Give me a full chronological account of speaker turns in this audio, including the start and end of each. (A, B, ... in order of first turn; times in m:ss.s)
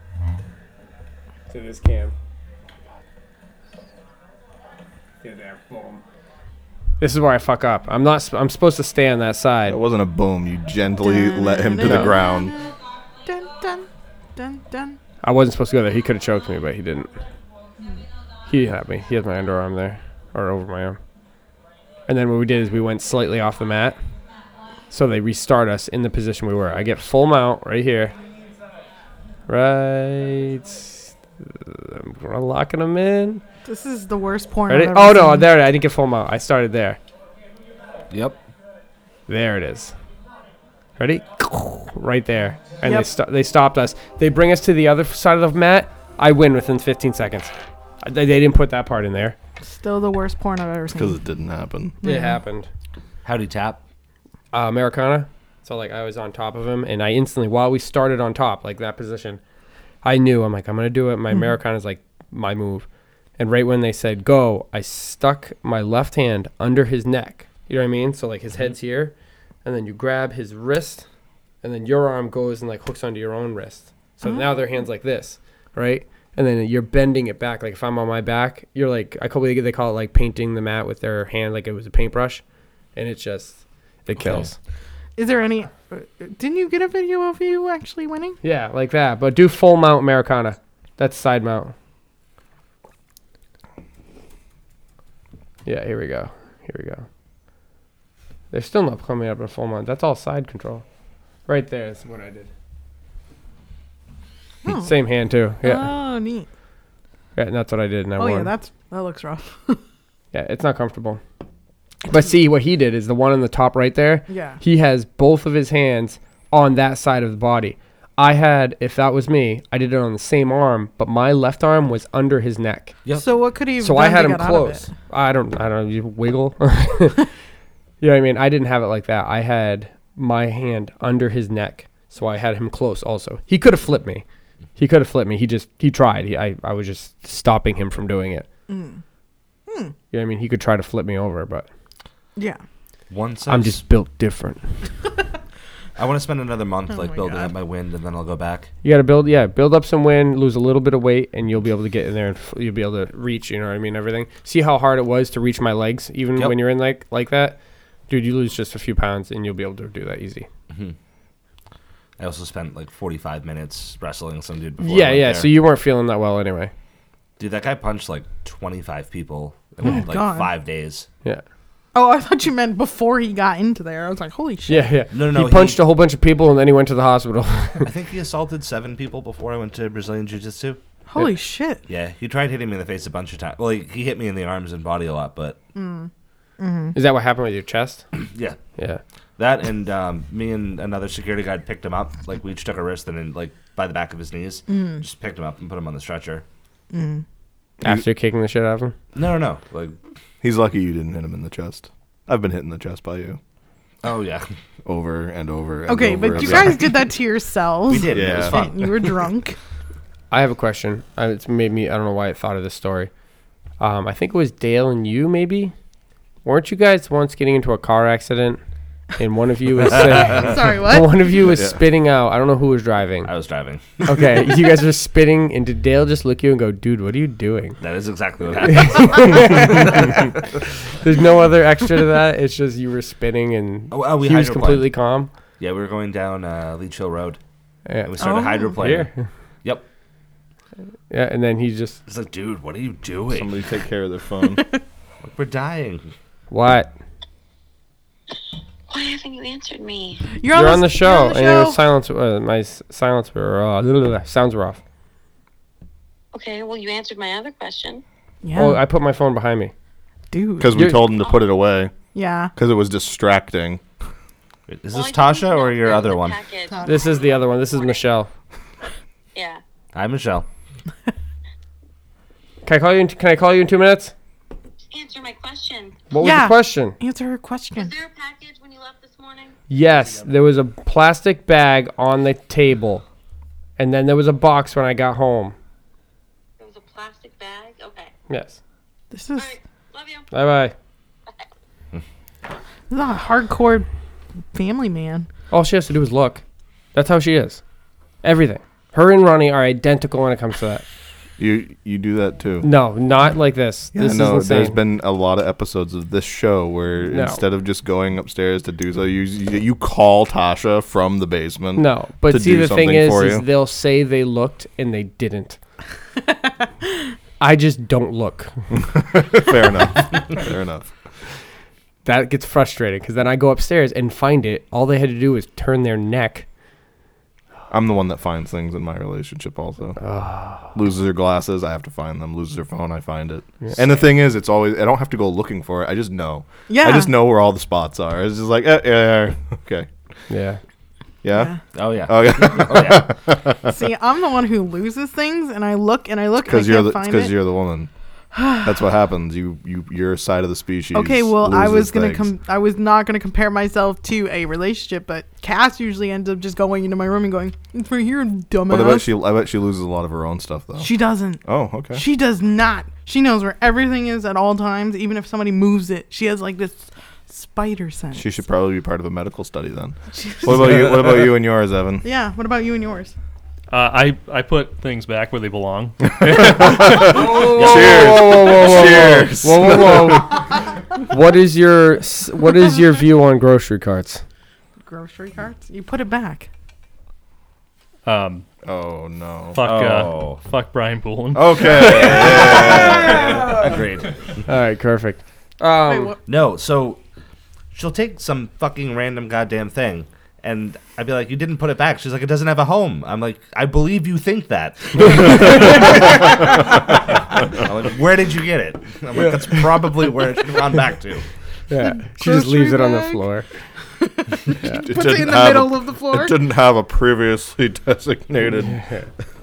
0:01.5-0:02.1 A
0:05.2-0:06.0 A
0:07.0-0:09.8 A
0:09.7-0:12.5 B
0:11.0-0:12.7 C
0:11.8-0:12.2 A
0:13.3-0:15.0 C
0:15.2-0:17.1 A
0:18.5-0:21.0 A
0:22.1-0:24.0 A
0:24.9-0:28.2 A
0:29.5-0:33.4 A
0:33.6-0:35.5 C
0:34.7-0:37.0 A
0:38.1-0:38.4 D
0:39.3-0:39.9 A
0:41.0-0:49.4 A
0:42.8-0:43.1 C
0:49.6-0:51.2 C
0:50.9-0:52.0 B
0:52.0-0:52.4 C
0:52.0-0:52.7 A
0:53.2-0:53.8 D
0:54.5-0:59.4 A
1:00.0-1:02.9 A
1:03.4-1:09.1 A
1:09.6-1:11.1 A
1:11.6-1:22.4 A
1:14.2-1:14.5 C
1:23.0-1:24.6 A
1:24.2-1:24.5 D
1:25.2-1:28.4 C
1:28.4-1:31.8 A
1:35.7-1:37.1 A
1:38.5-1:40.8 A
1:41.5-1:42.5 A
1:44.6-1:45.0 C
1:44.7-1:45.9 A
1:45.6-1:46.5 C
1:47.4-1:48.5 A
1:48.2-1:49.8 C
1:50.3-1:51.2 A
1:52.1-2:03.0 A
1:54.3-1:54.6 C
2:03.0-2:03.3 D
2:03.2-2:04.9 C
2:03.8-2:07.3 A
2:08.0-2:14.2 A
2:14.8-2:18.5 A
2:18.7-2:19.0 C
2:19.7-2:19.9 C
2:20.1-2:21.7 A
2:23.1-2:23.8 D
2:23.5-2:24.6 A
2:26.0-2:28.7 D
2:26.9-2:27.5 C
2:28.8-2:37.6 A
2:38.1-2:40.5 A
2:40.7-2:41.0 D
2:42.2-2:45.5 D
2:44.8-2:46.7 A
2:47.4-2:51.1 D
2:49.8-2:50.5 C
2:51.9-2:55.0 C
2:54.7-2:57.9 A
2:55.1-2:55.8 D
2:57.8-3:00.8 D
3:01.1-3:01.8 C
3:01.9-3:05.6 D
3:05.8-3:07.0 C
3:07.0-3:08.1 A
3:08.2-3:08.6 D
3:09.4-3:16.4 D
3:14.7-3:15.0 C
3:16.9-3:17.2 C
3:17.8-3:19.0 A
3:19.2-3:20.0 D
3:20.4-3:23.4 B
3:24.0-3:24.6 D
3:24.9-3:26.9 B
3:25.9-3:29.6 C
3:26.3-3:26.7 D
3:27.9-3:29.2 D
3:28.1-3:28.6 B
3:30.3-3:33.1 A
3:33.8-3:35.7 A
3:36.4-3:38.6 A
3:39.2-3:43.3 A
3:40.3-3:41.3 C
3:41.5-3:41.8 B
3:43.2-3:44.4 D
3:44.0-3:47.8 A
3:47.8-3:50.3 D
3:48.6-3:50.2 A
3:51.0-3:55.3 A
3:53.9-3:54.9 D
3:55.6-3:57.4 D
3:57.9-3:59.2 A
3:58.0-3:59.1 D
3:58.2-3:58.8 C
4:01.1-4:02.0 A
4:02.1-4:03.6 D
4:03.3-4:04.6 B
4:05.2-4:06.1 D
4:06.5-4:06.9 A
4:08.9-4:10.3 E
4:10.4-4:11.8 C
4:10.5-4:14.8 A
4:16.3-4:18.0 E
4:18.4-4:18.8 C
4:18.6-4:19.7 A
4:20.3-4:20.8 C
4:20.6-4:21.9 B
4:20.7-4:21.1 A
4:22.1-4:22.5 C
4:22.6-4:23.8 B
4:24.7-4:26.4 D
4:24.9-4:28.1 E
4:26.7-4:27.2 C
4:26.8-4:28.3 A
4:29.4-4:29.6 E
4:29.9-4:30.5 D
4:32.6-4:34.1 A
4:34.9-4:36.1 E
4:36.1-4:37.0 A
4:36.2-4:37.9 C
4:37.8-4:39.6 E
4:39.7-4:43.0 A
4:40.0-4:40.3 F
4:43.8-4:45.6 A
4:46.6-4:48.1 E
4:48.3-4:48.6 A
4:49.1-4:49.6 C
4:49.4-4:50.3 E
4:50.3-4:50.7 A
4:52.9-4:53.9 C
4:54.5-4:55.3 C
4:55.5-4:56.4 A
4:56.9-4:57.6 A
4:58.2-5:00.8 A
5:01.4-5:02.7 B
5:02.6-5:04.8 A
5:03.9-5:13.5 B
5:07.1-5:07.4 A
5:11.8-5:15.6 A
5:17.4-5:18.6 A
5:18.7-5:20.9 B
5:22.0-5:26.5 A
5:27.7-5:30.0 B
5:30.0-5:30.7 A
5:30.6-5:39.9 B
5:36.7-5:37.2 C
5:40.3-5:40.6 A
5:41.2-5:43.8 B
5:41.3-5:41.6 C
5:41.7-5:43.1 D
5:43.7-5:47.3 C
5:46.4-5:47.9 B
5:48.3-5:48.7 C
5:48.6-5:52.3 B
5:50.9-5:59.1 C
5:58.7-6:02.0 B
6:00.8-6:08.3 C
6:08.2-6:12.1 B
6:10.1-6:11.0 C
6:12.0-6:13.1 C
6:13.7-6:17.3 F
6:16.2-6:20.4 B
6:17.0-6:20.4 A
6:17.4-6:18.2 D
6:21.1-6:24.2 A
6:24.8-6:26.5 C
6:28.0-6:28.5 F
6:28.6-6:29.6 B
6:29.6-6:33.3 F
6:29.6-6:30.4 D
6:31.3-6:33.5 B
6:32.3-6:34.4 D
6:34.5-6:36.1 A
6:35.9-6:36.2 C
6:36.3-6:37.0 D
6:37.7-6:51.2 D
6:45.6-6:45.9 B
6:51.7-6:53.5 A
6:51.8-6:53.2 C
6:54.0-6:56.4 C
6:54.7-6:58.8 B
6:58.7-6:59.1 A